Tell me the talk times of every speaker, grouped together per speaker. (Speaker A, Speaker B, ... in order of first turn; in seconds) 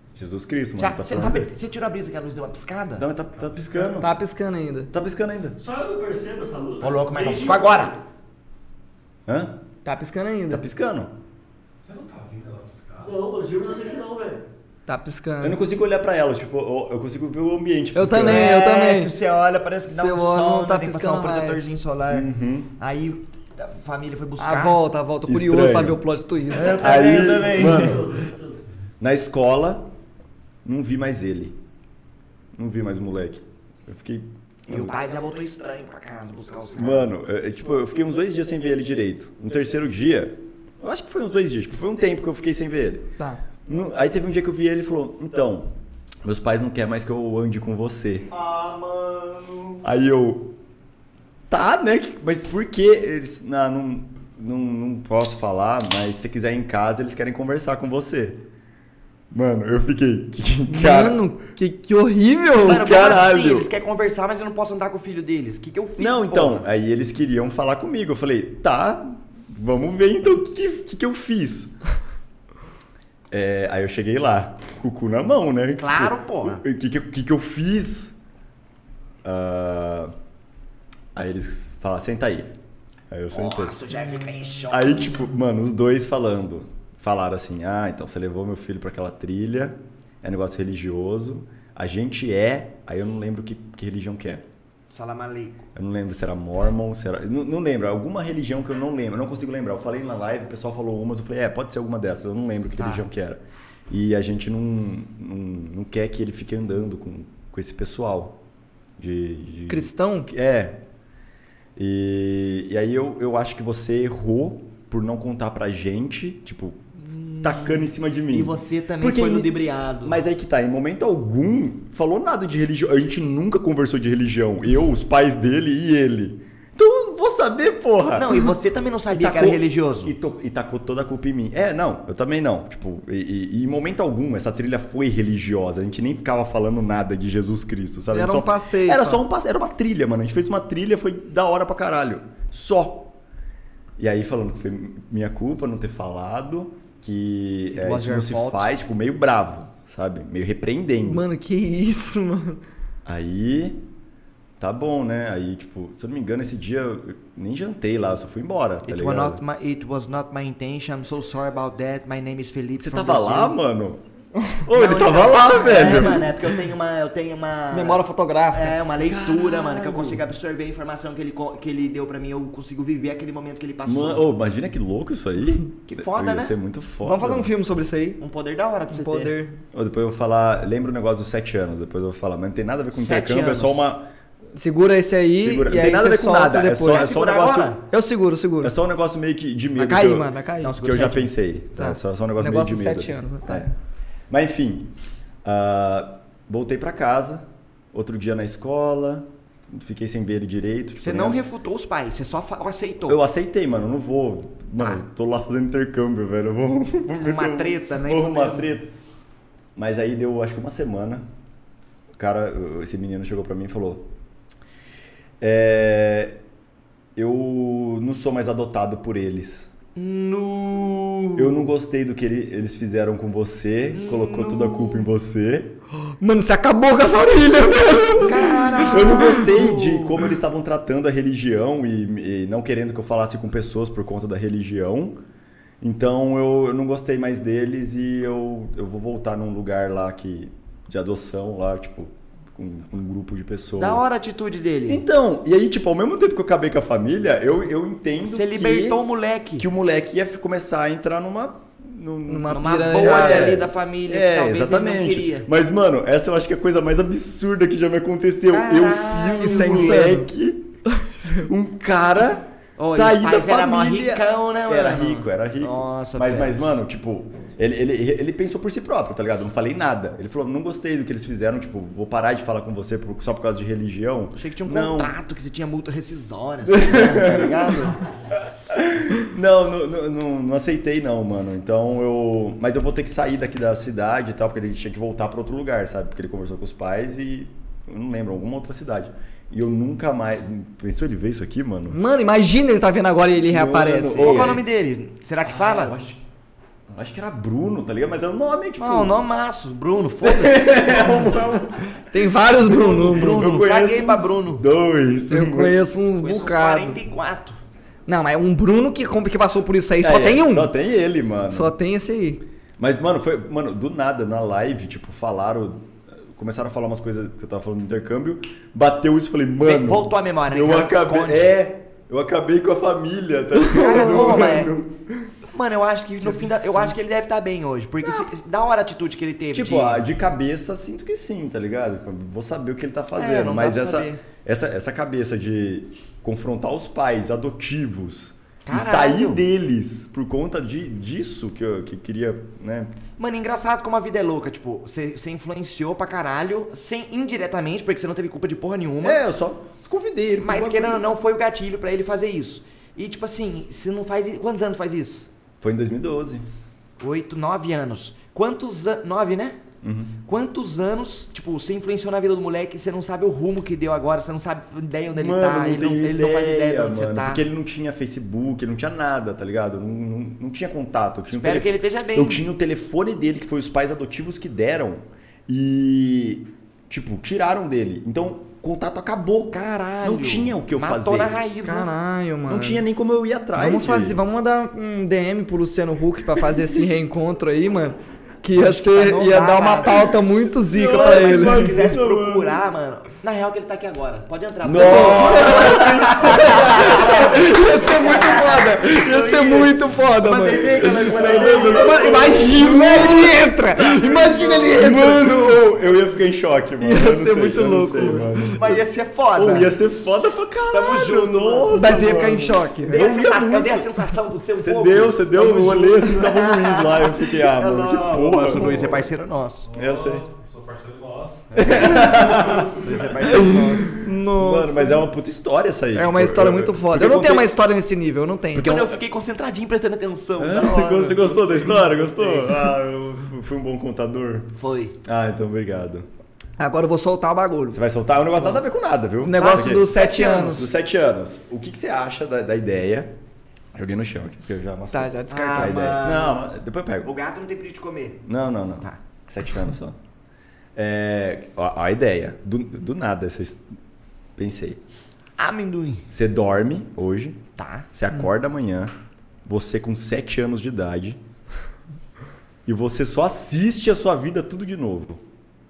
Speaker A: 0.1-1.5, 3.0-4.1, 4.9-5.6, 9.3-9.6, 10.5-11.1, 15.4-18.6, 22.1-22.7, 25.2-26.0, 26.6-28.2, 29.0-29.9, 30.6-31.6, 32.5-34.9, 36.8-43.1, 43.6-45.7, 46.2-48.3, 49.8-50.5, 51.5-58.5, 59.3-61.2, 62.6-63.7, 66.0-71.7, 73.3-78.1, 79.2-80.1, 81.2-82.5, 83.1-83.8, 84.7-94.4, 95.8-108.4, 109.0-110.8, 111.8-116.8, 117.4-128.5, 129.1-143.1, 144.0-151.2, 153.1-153.8, 154.6-159.4, 162.8-164.0, 164.6-166.3, 169.0-170.2, 173.8-177.5, 179.7-184.1, 185.4-187.8, 188.6-193.7, 194.3-194.9, 195.4-201.4, 203.1-208.9, 209.8-211.3, 212.2-214.1, 215.4-216.4, 217.2-219.7, 221.4-225.8, 228.3-235.2, 235.8-244.1, 244.9-249.0, 249.6-275.1, 276.7-277.7, 278.7-292.0, 293.5-294.6, 295.4-296.2, 296.9-299.2, 300.2-302.0, 302.6-305.8, 310.0-311.8, 312.8-324.9, 326.2-326.9, 329.5-342.9, 349.0-351.1, 355.6-356.5, 359.8-360.2, 365.1-381.4, 382.5-384.2, 390.7-392.6, 394.6-397.6, 400.7-408.8, 409.4-414.1, 414.6-419.1, 419.8-420.2, 421.5-427.5, 430.4-434.5, 435.0-436.1, 437.7-443.1, 443.8-447.1, 448.2-450.0, 450.8-453.6, 454.4-454.8, 456.1-457.4, 457.9-458.9, 459.4-461.2, 462.7-465.2
Speaker B: 0.8-3.1, 6.8-8.0, 18.2-24.8, 26.5-28.1, 34.7-37.1, 48.3-49.8, 62.6-66.7, 75.8-76.6, 83.3-85.3, 94.9-95.7, 102.8-103.0, 117.1-120.2, 128.1-130.1, 147.8-148.7, 158.9-163.6, 164.7-174.3, 175.9-176.5, 178.2-179.3, 182.9-183.8, 186.9-187.8, 190.6-191.3, 201.0-203.2, 207.2-208.7, 219.9-221.7, 223.9-225.1, 228.2-230.2, 243.8-245.0, 248.2-249.7, 252.5-255.5, 258.5-260.0, 262.8-266.7, 274.4-278.0, 294.2-295.9, 298.8-301.3, 302.7-304.6, 306.2-307.6, 319.6-321.5, 323.7-324.7, 325.5-330.1, 333.2-334.2, 338.7-339.5, 343.2-349.2, 350.4-355.3, 357.0-359.6, 360.2-367.4, 371.3-372.4, 379.5-381.9, 388.5-390.1, 390.8-404.7, 408.6-409.8, 410.7-412.1, 412.9-419.7, 421.7-424.0, 428.5-432.7, 434.6-435.0, 439.4-440.6, 445.3-446.5, 447.0-448.2, 455.4-456.1, 457.6-457.9
Speaker C: 3.9-4.9, 9.8-10.6, 14.9-15.6, 17.9-19.1, 19.9-21.7, 24.4-26.9, 60.7-62.9, 109.7-110.3, 138.1-139.2, 147.8-148.1, 151.1-152.6, 167.7-168.8, 177.0-178.2, 178.9-179.6, 184.6-187.2, 187.9-188.7, 189.8-190.8, 191.8-193.7, 226.2-229.4, 252.3-253.6, 259.4-260.3, 291.9-294.6, 302.1-303.6, 305.3-307.0, 308.1-310.7, 311.5-312.4, 323.8-324.7, 381.6-382.8, 383.6-391.8, 394.8-405.6, 406.8-408.3, 411.7-413.1, 423.3-425.1, 425.9-428.9, 436.6-437.8, 439.2-440.7, 444.9-445.9
Speaker D: 5.6-8.0, 13.0-14.4, 27.1-28.6
Speaker E: 11.8-13.1, 419.7-422.7